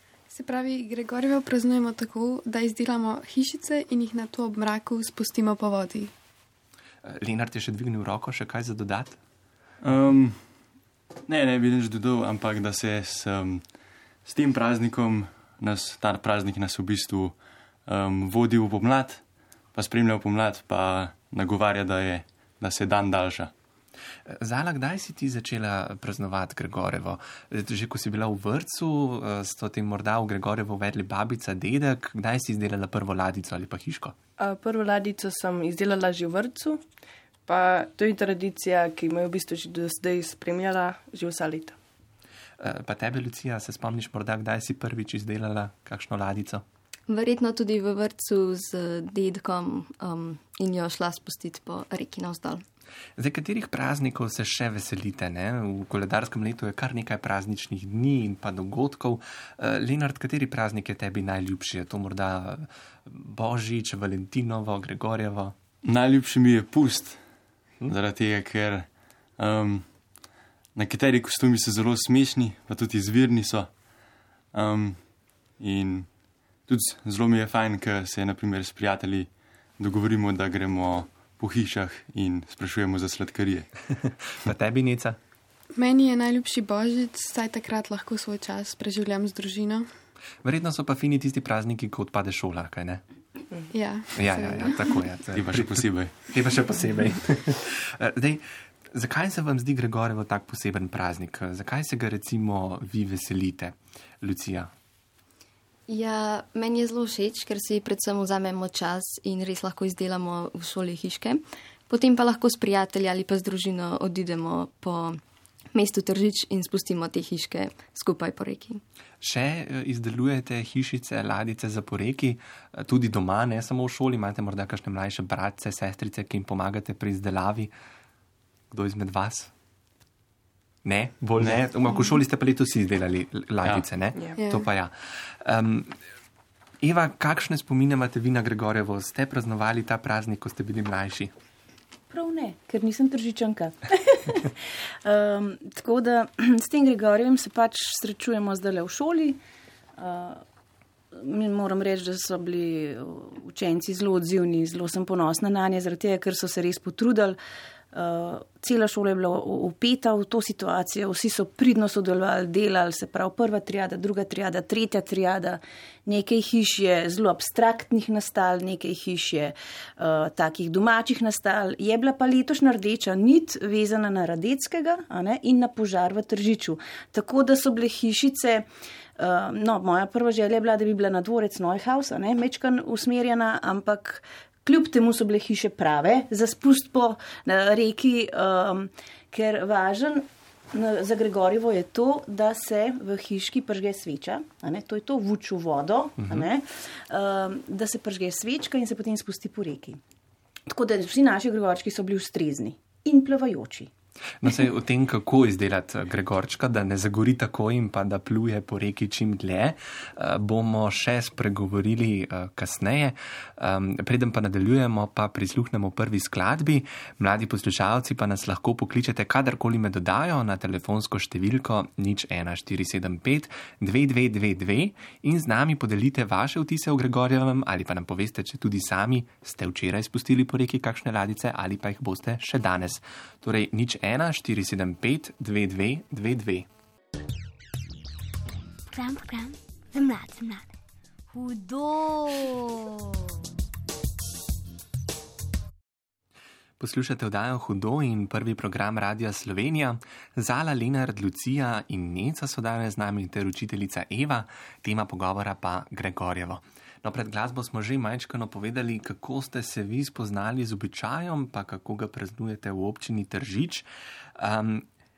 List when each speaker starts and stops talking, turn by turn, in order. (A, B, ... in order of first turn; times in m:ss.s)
0:00.3-0:06.1 A
0:07.0-0:09.2 B
0:09.8-0:10.5 C
0:11.3-0:13.7 C
0:14.2-0:23.5 C
0:24.2-0:34.2 B
0:34.4-0:36.8 D
0:37.4-0:41.8 D
0:42.6-0:46.6 B
0:47.1-0:52.6 E
0:53.2-1:05.6 B
1:05.8-1:07.2 C
1:07.9-1:09.9 C
1:10.8-1:13.7 C
1:14.5-1:15.0 C
1:15.6-1:16.1 C
1:16.7-1:23.7 C
1:24.0-1:25.2 B
1:25.8-1:29.9 A
1:30.4-1:33.0 B
1:33.7-1:34.8 A
1:34.1-1:44.7 B
1:35.4-1:36.1 C
1:45.9-1:55.2 E
1:55.7-1:58.8 E
1:59.2-2:07.7 B
2:08.7-2:09.5 B
2:10.8-2:16.0 B
2:14.4-2:14.7 A
2:16.8-2:21.3 B
2:22.1-2:29.4 F
2:30.0-2:30.4 F
2:31.1-2:37.4 F
2:37.9-2:58.7 F
2:59.2-3:20.0 F
3:16.2-3:16.5 B
3:20.7-3:23.9 F
3:24.4-3:56.7 B
3:58.9-4:00.7 G
4:01.3-4:03.2 G
4:06.8-4:24.9 B